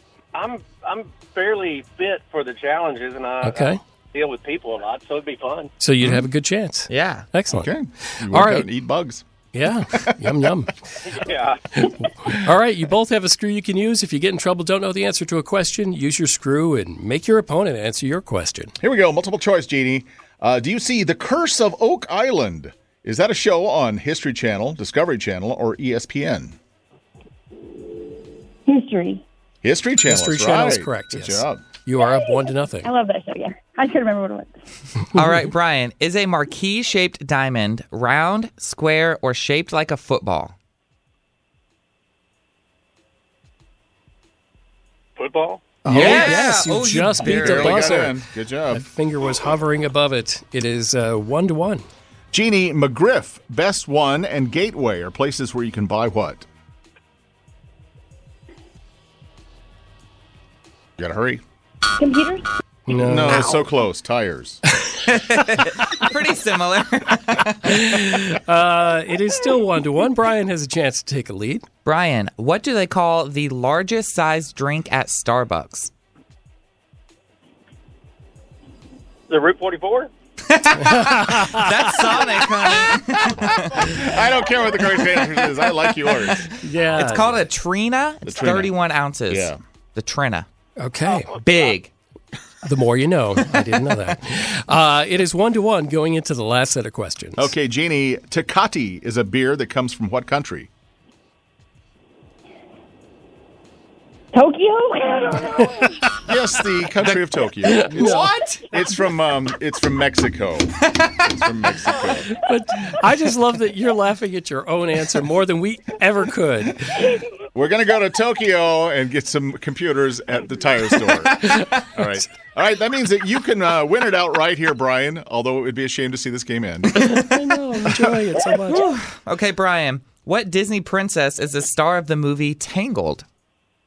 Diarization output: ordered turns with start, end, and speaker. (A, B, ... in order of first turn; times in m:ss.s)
0:00.3-0:05.7 A
0:03.4-0:03.8 B
0:05.8-0:08.7 B
0:06.0-0:06.3 C
0:06.9-0:07.3 D
0:07.5-0:09.2 C
0:09.5-0:10.8 B
0:09.9-0:10.5 C
0:11.1-0:11.6 A
0:11.7-0:18.8 B
0:18.8-0:26.6 C
0:28.7-0:29.2 E
0:29.6-0:31.6 C
0:30.1-0:32.9 B
0:32.0-0:32.3 E
0:32.8-0:34.5 E
0:35.2-0:40.5 D
0:45.2-0:45.8 A
0:45.8-0:46.6 C
0:45.9-0:48.2 B
0:45.9-0:48.1 D
0:47.2-0:48.8 C
0:48.7-0:51.8 B
0:52.3-0:56.5 C
1:01.0-1:01.4 C
1:02.0-1:02.4 E
1:02.9-1:03.6 B
1:02.9-1:04.6 C
1:05.1-1:08.1 D
1:07.6-1:11.7 B
1:11.8-1:15.9 D
1:19.3-1:20.1 A
1:20.4-1:24.0 D
1:20.8-1:21.9 B
1:23.2-1:26.5 C
1:26.5-1:27.4 B
1:27.0-1:30.5 D
1:28.3-1:28.7 C
1:29.3-1:29.6 C
1:30.8-1:31.4 B
1:31.1-1:31.7 A
1:31.4-1:31.9 D
1:32.6-1:37.5 B
1:37.4-1:40.7 C
1:44.3-1:46.0 E
1:46.2-1:52.3 C
1:47.6-1:48.3 B
1:47.9-1:48.7 D
1:50.9-1:51.2 D
1:52.3-1:57.0 B
1:57.6-2:07.1 C
2:01.3-2:01.8 D
2:01.4-2:01.7 B
2:06.9-2:08.9 B
2:08.7-2:13.2 D